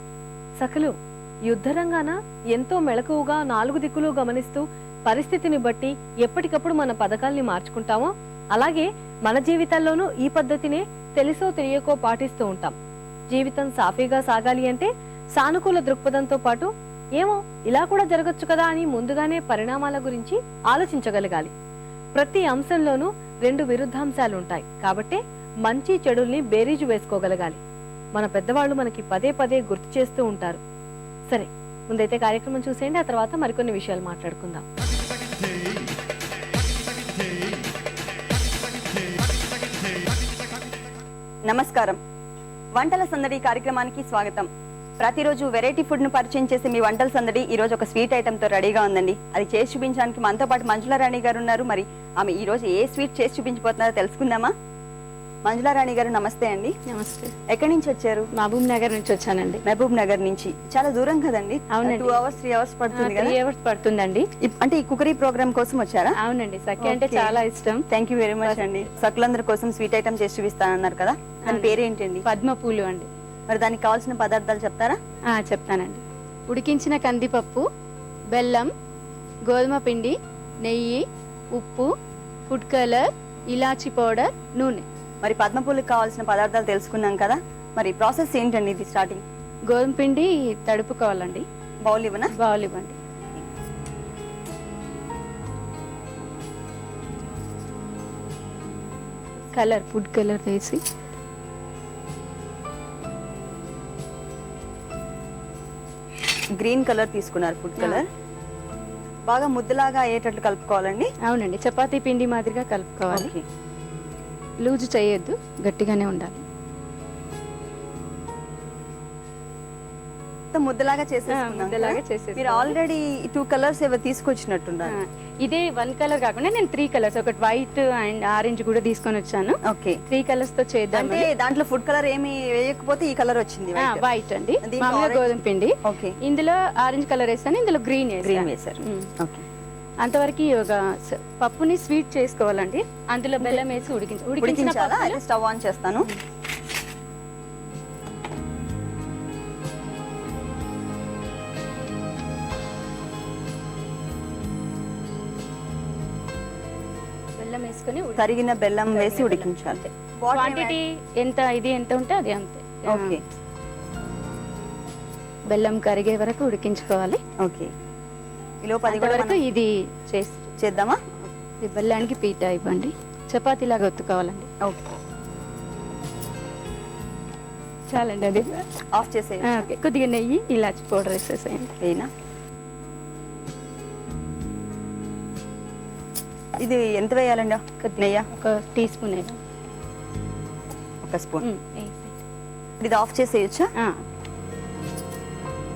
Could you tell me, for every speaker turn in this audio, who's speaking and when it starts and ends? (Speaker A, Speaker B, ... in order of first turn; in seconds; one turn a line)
Speaker A: 0.6-0.9
Speaker A: 1.4-12.7
Speaker A: 13.3-21.5
Speaker A: 22.1-27.6
Speaker A: 28.1-30.6
Speaker A: 31.3-34.6
Speaker B: 41.5-42.0
Speaker B: 42.7-54.5
Speaker B: 55.4-56.7
Speaker C: 56.9-57.3
Speaker B: 57.5-58.3
Speaker C: 58.4-59.6
Speaker B: 59.6-63.4
Speaker C: 61.7-62.2
Speaker C: 62.9-64.3
Speaker B: 64.4-66.1
Speaker C: 66.2-67.8
Speaker B: 66.8-67.3
Speaker B: 67.9-72.2
Speaker C: 68.4-68.8
Speaker C: 71.4-73.1
Speaker B: 73.5-75.0
Speaker C: 75.3-77.6
Speaker C: 78.3-78.7
Speaker C: 79.5-81.9
Speaker C: 82.5-84.8
Speaker B: 85.2-89.2
Speaker C: 89.7-91.4
Speaker B: 91.8-92.3
Speaker C: 92.3-93.0
Speaker C: 99.5-100.8
Speaker B: 106.5-108.1
Speaker B: 109.3-111.1
Speaker C: 111.2-113.3
Speaker B: 113.1-113.4
Speaker C: 114.6-116.4
Speaker B: 120.5-125.0
Speaker C: 121.3-122.8
Speaker C: 124.8-131.3
Speaker B: 129.7-130.0
Speaker B: 130.9-134.1
Speaker C: 133.8-139.1
Speaker B: 134.6-135.2
Speaker B: 135.8-136.1
Speaker B: 138.2-139.4
Speaker C: 140.0-145.2
Speaker B: 144.4-146.1
Speaker C: 157.4-163.2
Speaker B: 158.2-160.8
Speaker B: 162.8-163.2
Speaker C: 165.5-167.2
Speaker B: 167.4-167.7
Speaker B: 168.6-169.4
Speaker C: 168.9-170.5
Speaker B: 170.6-171.0
Speaker C: 171.6-174.5
Speaker B: 174.6-175.0
Speaker C: 177.9-178.6
Speaker B: 178.9-179.5
Speaker C: 179.4-181.8
Speaker B: 181.8-182.1
Speaker B: 186.6-188.3
Speaker C: 187.8-189.4
Speaker B: 191.0-191.4
Speaker C: 191.4-192.2
Speaker B: 192.8-193.7